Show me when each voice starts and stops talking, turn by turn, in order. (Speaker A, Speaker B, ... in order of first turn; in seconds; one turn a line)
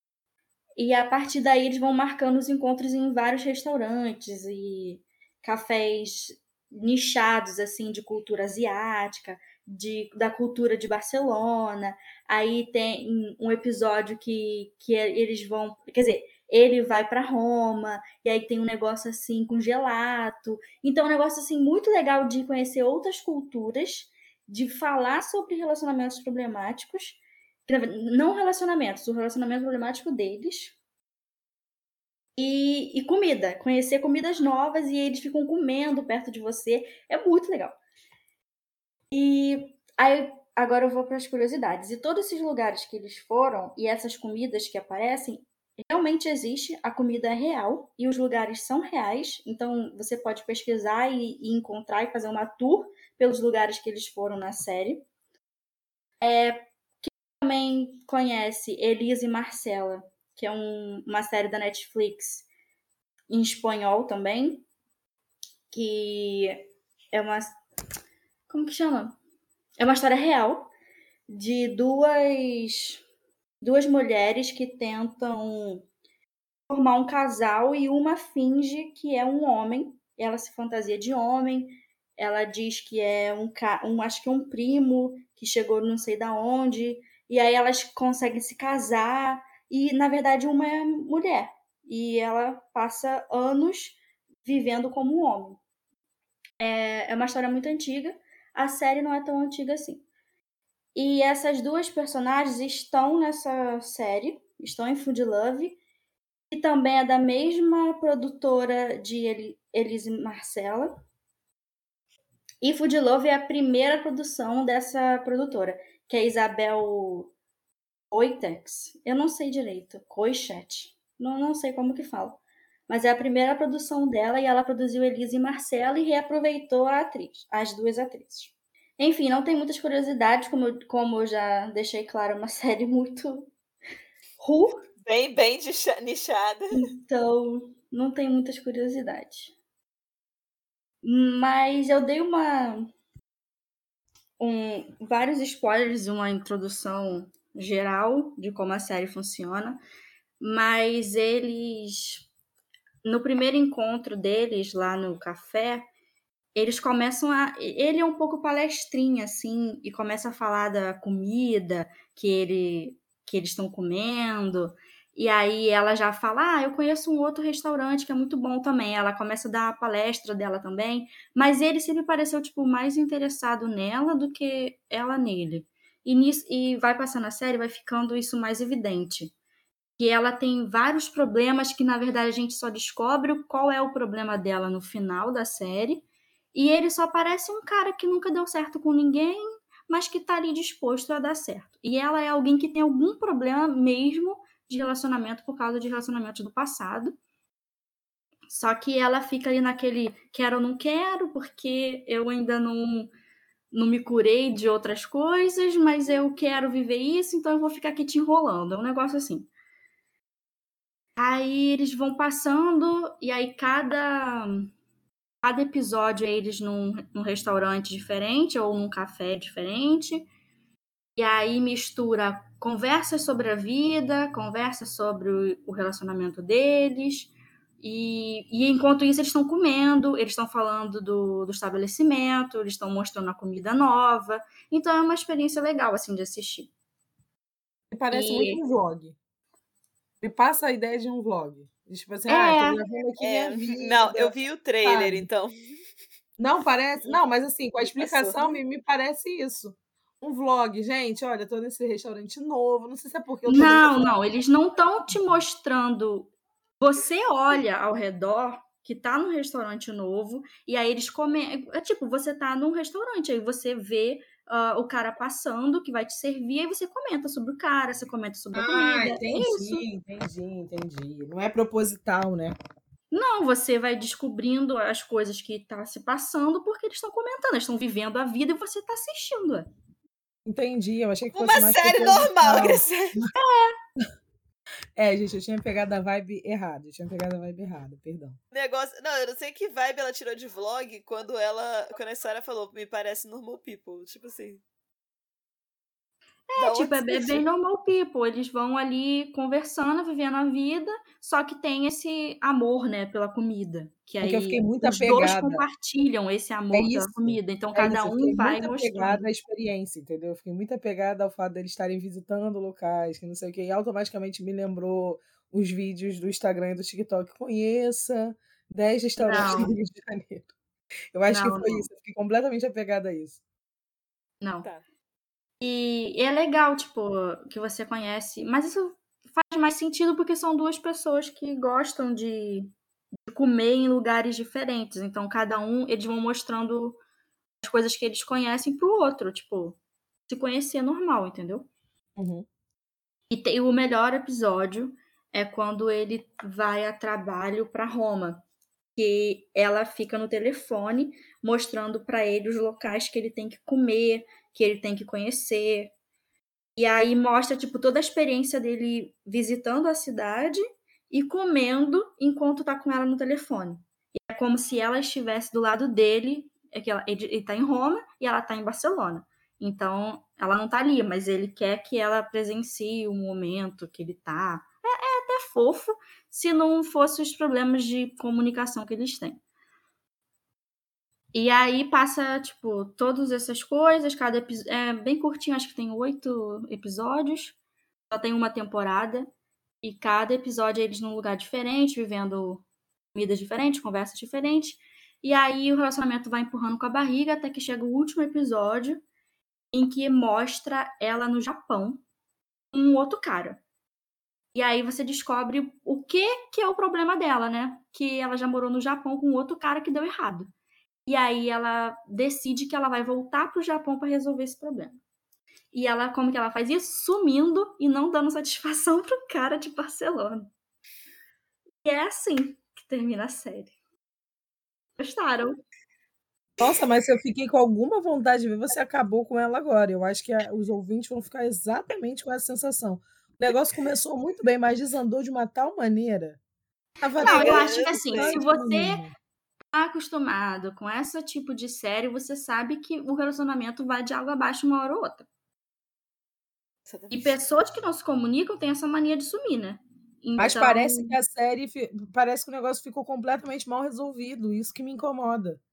Speaker A: 0.8-30.8
Speaker A: 32.4-37.8
Speaker A: 39.1-55.1
Speaker A: 56.2-62.5
Speaker A: 63.3-64.7
Speaker A: 65.7-67.6
Speaker A: 68.5-69.2
Speaker A: 69.8-70.7
Speaker A: 71.3-73.0
Speaker A: 73.6-75.9
Speaker A: 76.7-95.6
Speaker A: 96.6-100.0
Speaker A: 101.0-105.8
Speaker A: 106.5-111.0
Speaker A: 112.6-117.3
Speaker A: 118.1-133.5
Speaker A: 134.4-134.9
Speaker B: 135.1-136.9
Speaker A: 136.7-139.5
Speaker A: 141.0-142.9
Speaker A: 144.4-149.8
Speaker A: 150.4-152.3
Speaker A: 153.0-155.9
Speaker A: 156.6-179.3
Speaker A: 180.0-197.2
Speaker A: 198.5-203.1
Speaker A: 203.7-209.5
Speaker A: 211.2-214.7
Speaker A: 215.4-220.3
Speaker A: 221.2-236.7
Speaker C: 237.9-239.2
Speaker A: 238.1-238.6
Speaker C: 240.2-245.3
Speaker A: 242.3-242.8
Speaker B: 243.2-245.6
Speaker C: 246.4-254.2
Speaker B: 247.9-248.6
Speaker A: 253.5-269.8
Speaker C: 268.5-272.6
Speaker A: 273.1-279.7
Speaker C: 280.5-283.3
Speaker B: 281.3-283.3
Speaker A: 283.3-283.8
Speaker C: 285.0-288.4
Speaker B: 288.5-294.6
Speaker A: 296.5-309.3
Speaker B: 296.6-297.4
Speaker C: 304.2-305.7
Speaker C: 306.7-320.5
Speaker A: 319.2-319.7
Speaker C: 321.1-323.4
Speaker A: 321.3-321.9
Speaker A: 324.4-324.7
Speaker A: 325.6-332.7
Speaker A: 333.3-337.0
Speaker A: 337.6-341.7
Speaker C: 342.2-342.5
Speaker A: 343.3-348.4
Speaker A: 349.0-355.9
Speaker A: 356.8-379.4
Speaker A: 381.3-387.6
Speaker A: 388.1-389.3
Speaker A: 389.8-399.0
Speaker A: 399.7-402.0
Speaker A: 402.7-403.6
Speaker A: 404.6-410.5
Speaker A: 411.1-415.0
Speaker A: 415.7-420.5
Speaker A: 421.9-423.7
Speaker A: 425.0-425.6
Speaker C: 426.6-436.4
Speaker C: 437.0-439.1
Speaker A: 437.2-439.0
Speaker B: 437.2-438.4
Speaker A: 439.7-445.3
Speaker B: 446.9-447.4
Speaker A: 447.1-451.2
Speaker C: 450.4-455.6